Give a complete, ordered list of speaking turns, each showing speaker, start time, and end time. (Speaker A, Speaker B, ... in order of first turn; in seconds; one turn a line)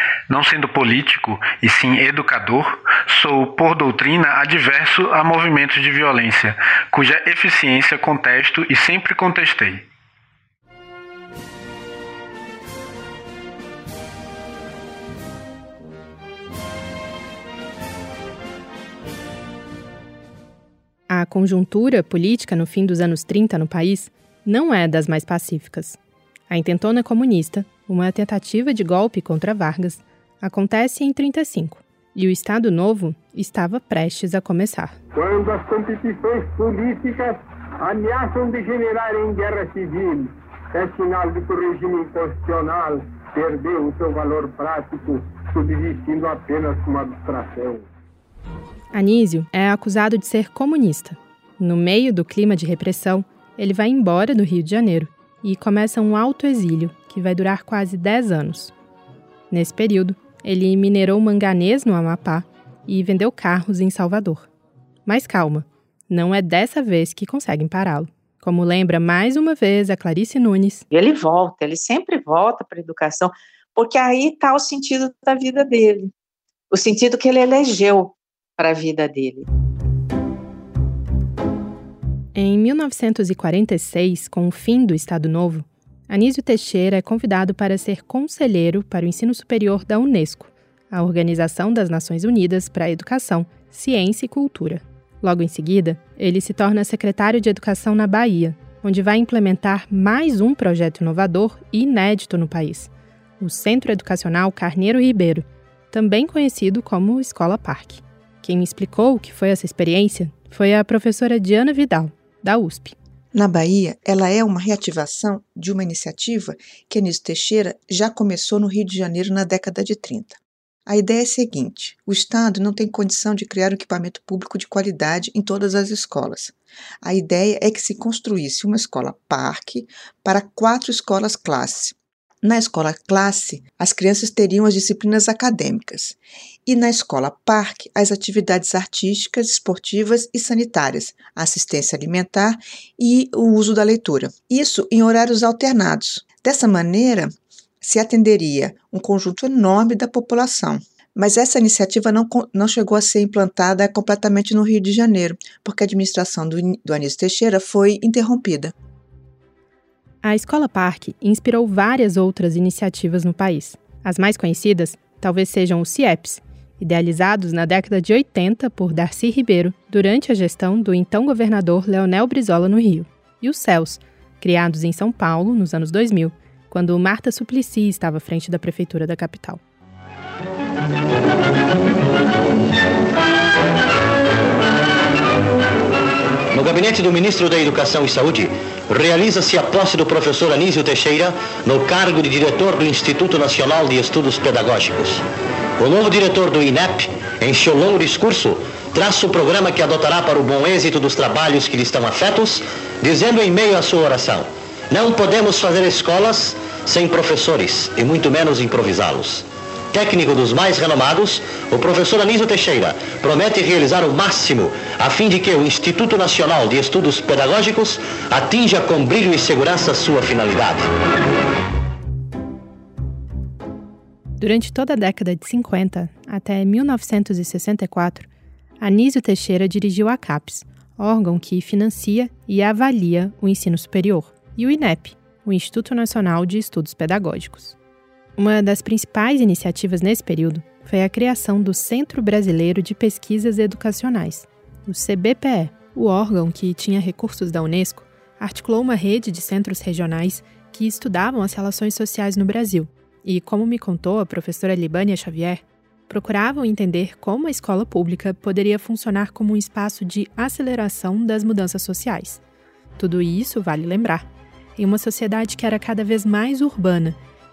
Speaker A: 0.3-9.8
Speaker B: 21.1-26.0
Speaker B: 26.5-35.0
Speaker C: 35.1-47.9
Speaker B: 48.9-58.7
Speaker B: 59.5-64.5
Speaker B: 65.0-70.8
Speaker D: 70.9-76.1
Speaker D: 76.7-79.5
Speaker B: 82.3-112.9
Speaker E: 113.3-158.7
Speaker B: 160.2-179.6
Speaker F: 186.5-195.2
Speaker F: 195.8-220.8
Speaker B: 224.4-228.3
Speaker B: 228.8-237.8
Speaker B: 238.4-262.4
Speaker B: 263.0-267.2